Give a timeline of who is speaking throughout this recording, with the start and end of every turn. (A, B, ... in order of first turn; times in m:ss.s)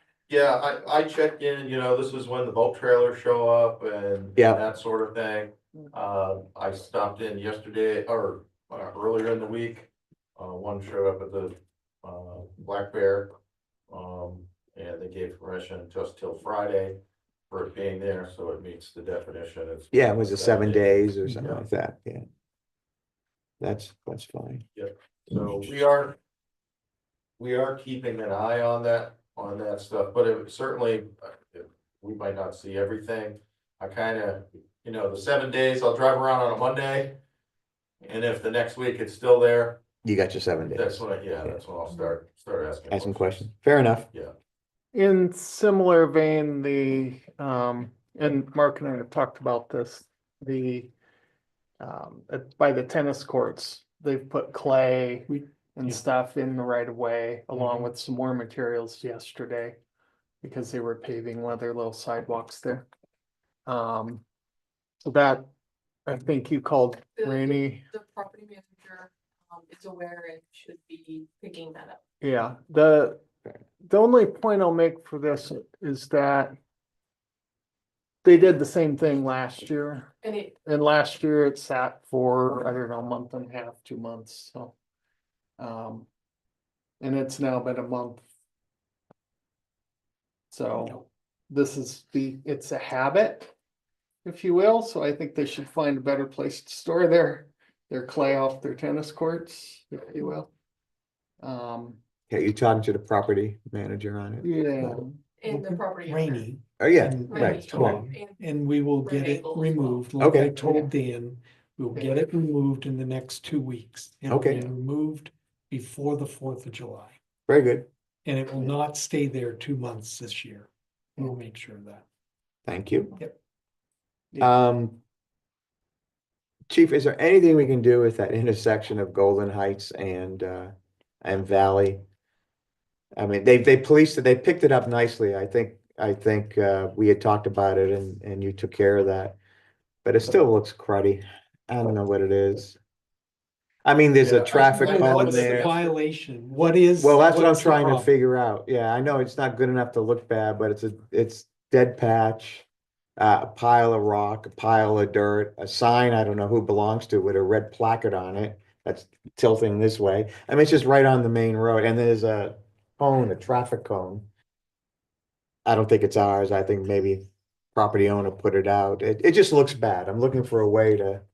0:00.3-0:13.3 A
0:04.4-0:04.6 B
0:13.9-0:17.0 A
0:17.5-0:21.1 A
0:19.9-0:22.2 B
0:21.2-0:21.6 C
0:23.6-0:24.6 B
0:24.7-0:26.2 A
0:27.4-0:37.2 A
0:38.0-0:39.8 A
0:40.0-0:41.0 B
0:40.7-0:43.5 A
0:42.9-0:44.1 B
0:44.9-0:50.9 D
0:51.8-0:59.8 D
0:55.3-0:56.0 C
0:57.6-0:57.8 C
1:00.4-1:02.9 D
1:03.6-1:04.2 D
1:05.0-1:05.5 D
1:06.0-1:07.8 D
1:07.2-1:12.0 E
1:12.2-1:13.2 D
1:13.8-1:16.5 D
1:18.2-1:24.7 D
1:20.2-1:20.6 E
1:25.6-1:26.1 D
1:27.0-1:28.2 D
1:30.5-1:33.5 D
1:34.2-1:40.5 D
1:41.4-1:42.0 D
1:42.3-1:45.0 B
1:44.4-1:45.1 D
1:45.4-1:46.4 E
1:45.4-1:57.2 C
1:46.8-1:48.0 B
1:47.3-1:48.4 E
1:49.0-1:50.0 E
1:50.2-1:50.5 B
1:54.3-1:54.7 B
1:57.5-1:57.9 B
1:58.2-2:02.0 C
2:02.7-2:03.2 B
2:04.4-2:05.0 B
2:06.7-2:12.0 B
2:13.2-2:19.4 B
2:20.0-2:22.8 B
2:23.8-2:25.7 B
2:24.2-2:25.9 A
2:24.5-2:28.1 C
2:27.0-2:32.6 B
2:33.2-2:44.2 B
2:45.6-2:51.2 B